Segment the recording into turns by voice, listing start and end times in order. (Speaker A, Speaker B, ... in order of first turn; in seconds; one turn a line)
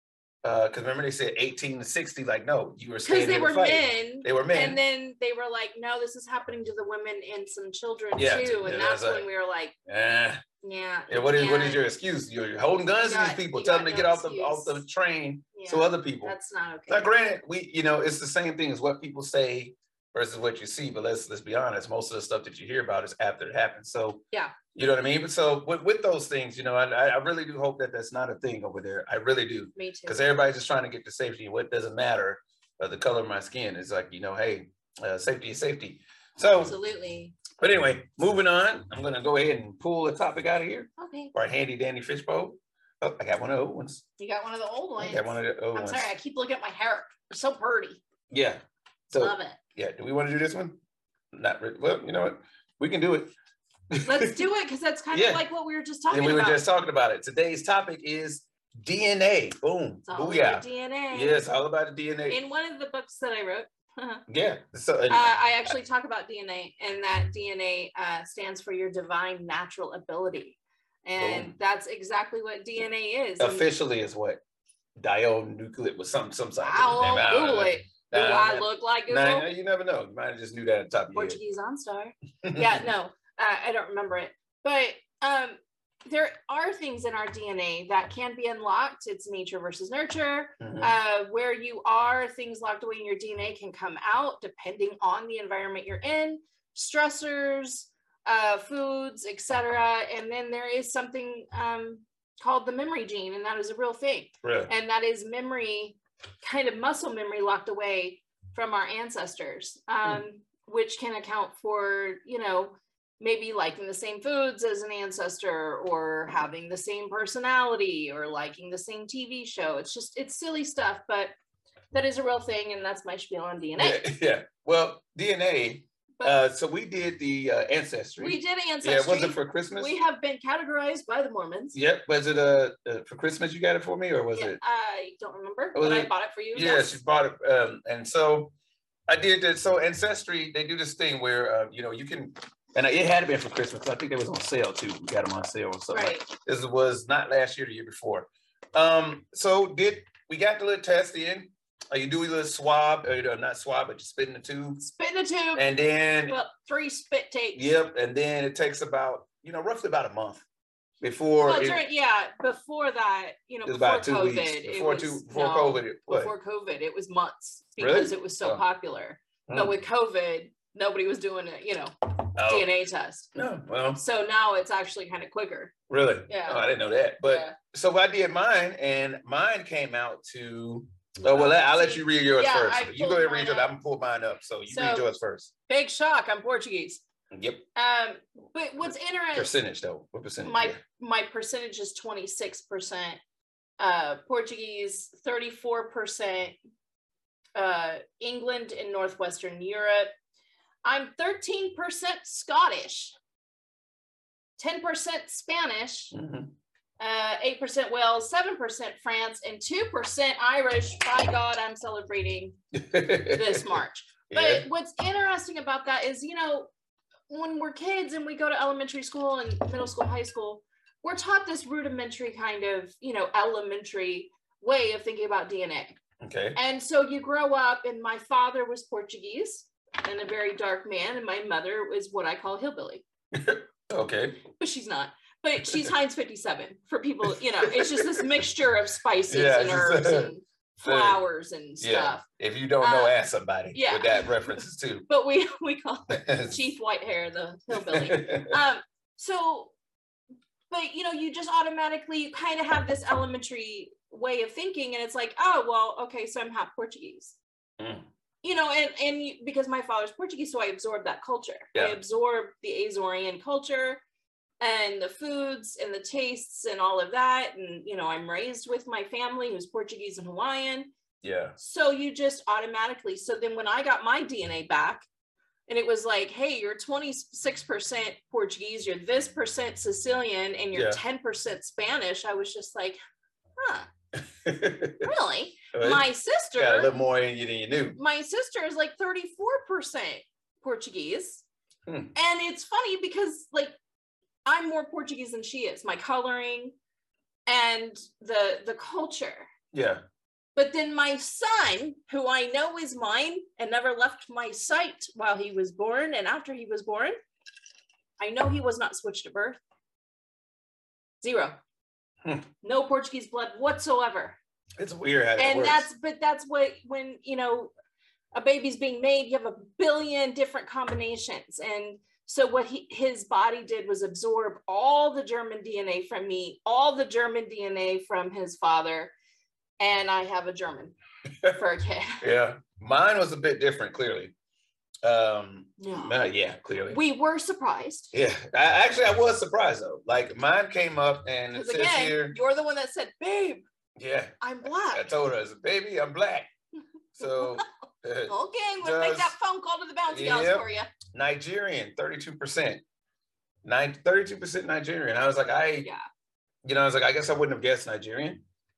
Speaker A: 0.4-4.8
Speaker B: 3.0-9.8
Speaker A: 8.2-9.3
Speaker A: 9.9-10.4
Speaker B: 10.6-11.8
Speaker A: 11.1-16.4
Speaker B: 13.0-14.8
Speaker B: 15.6-17.1
Speaker A: 16.9-36.8
Speaker B: 29.8-30.3
Speaker B: 36.4-37.4
Speaker A: 37.6-44.0
Speaker B: 41.0-41.3
Speaker B: 44.2-48.0
Speaker A: 45.0-46.1
Speaker A: 48.3-50.8
Speaker B: 49.1-49.6
Speaker A: 51.3-53.3
Speaker A: 53.9-54.4
Speaker B: 54.0-56.6
Speaker A: 55.1-55.4
Speaker A: 56.1-62.4
Speaker B: 60.1-61.5
Speaker B: 62.3-64.2
Speaker A: 64.3-65.7
Speaker B: 65.1-73.7
Speaker A: 71.2-71.5
Speaker A: 73.4-74.4
Speaker A: 75.0-81.4
Speaker B: 76.6-79.5
Speaker B: 81.1-121.3
Speaker A: 82.4-82.9
Speaker A: 90.6-90.9
Speaker A: 104.4-104.7
Speaker B: 121.9-124.0
Speaker A: 123.8-129.9
Speaker B: 128.2-131.8
Speaker A: 131.7-134.6
Speaker B: 134.3-137.0
Speaker A: 135.8-138.5
Speaker A: 139.1-154.8
Speaker B: 145.9-146.3
Speaker B: 154.8-155.7
Speaker A: 155.6-156.4
Speaker B: 156.3-157.8
Speaker A: 157.5-160.4
Speaker A: 161.0-161.8
Speaker B: 161.4-173.3
Speaker A: 163.7-166.3
Speaker A: 167.8-168.6
Speaker A: 169.5-169.8
Speaker A: 172.4-172.7
Speaker A: 173.3-174.0
Speaker B: 174.0-175.7
Speaker A: 175.9-185.5
Speaker B: 176.3-176.7
Speaker B: 177.2-177.6
Speaker B: 181.2-183.7
Speaker B: 184.7-185.1
Speaker B: 185.7-187.0
Speaker A: 187.3-187.7
Speaker B: 187.8-189.5
Speaker A: 189.3-190.8
Speaker B: 190.4-193.2
Speaker B: 193.8-196.6
Speaker B: 197.6-200.1
Speaker B: 200.8-203.2
Speaker B: 204.6-206.1
Speaker A: 206.1-206.5
Speaker B: 207.0-212.6
Speaker A: 212.7-214.7
Speaker B: 213.2-216.7
Speaker B: 217.3-226.0
Speaker A: 226.2-226.6
Speaker B: 226.6-233.0
Speaker A: 233.3-234.5
Speaker B: 234.5-242.2
Speaker A: 237.6-238.4
Speaker A: 239.3-241.2
Speaker A: 241.8-245.1
Speaker B: 242.8-243.1
Speaker B: 243.7-249.7
Speaker A: 246.1-246.6
Speaker A: 247.7-248.6
Speaker B: 250.7-257.4
Speaker A: 257.8-258.1
Speaker B: 258.4-264.0
Speaker A: 261.7-262.0
Speaker B: 264.6-270.9
Speaker A: 271.2-271.6
Speaker B: 271.6-275.1
Speaker B: 275.7-283.0
Speaker A: 280.7-281.0
Speaker B: 283.6-283.9
Speaker A: 284.1-285.1
Speaker B: 285.0-286.9
Speaker A: 285.7-288.0
Speaker B: 287.9-291.4
Speaker A: 291.9-292.1
Speaker B: 292.1-293.8
Speaker B: 294.4-296.8
Speaker B: 297.5-299.5
Speaker A: 299.7-300.0
Speaker B: 300.6-307.2
Speaker B: 308.2-309.6
Speaker B: 311.2-311.6
Speaker B: 312.6-314.4
Speaker A: 314.8-315.9
Speaker B: 315.4-317.7
Speaker B: 318.3-329.1
Speaker B: 329.8-330.9
Speaker B: 331.5-332.2
Speaker A: 332.2-334.3
Speaker A: 335.0-337.0
Speaker B: 335.8-336.1
Speaker B: 336.9-338.1
Speaker A: 338.1-342.4
Speaker B: 341.5-343.6
Speaker A: 344.0-346.5
Speaker B: 344.4-345.1
Speaker A: 347.1-349.3
Speaker B: 347.2-347.6
Speaker B: 348.3-350.9
Speaker A: 350.1-352.8
Speaker A: 353.6-355.9
Speaker A: 356.6-358.4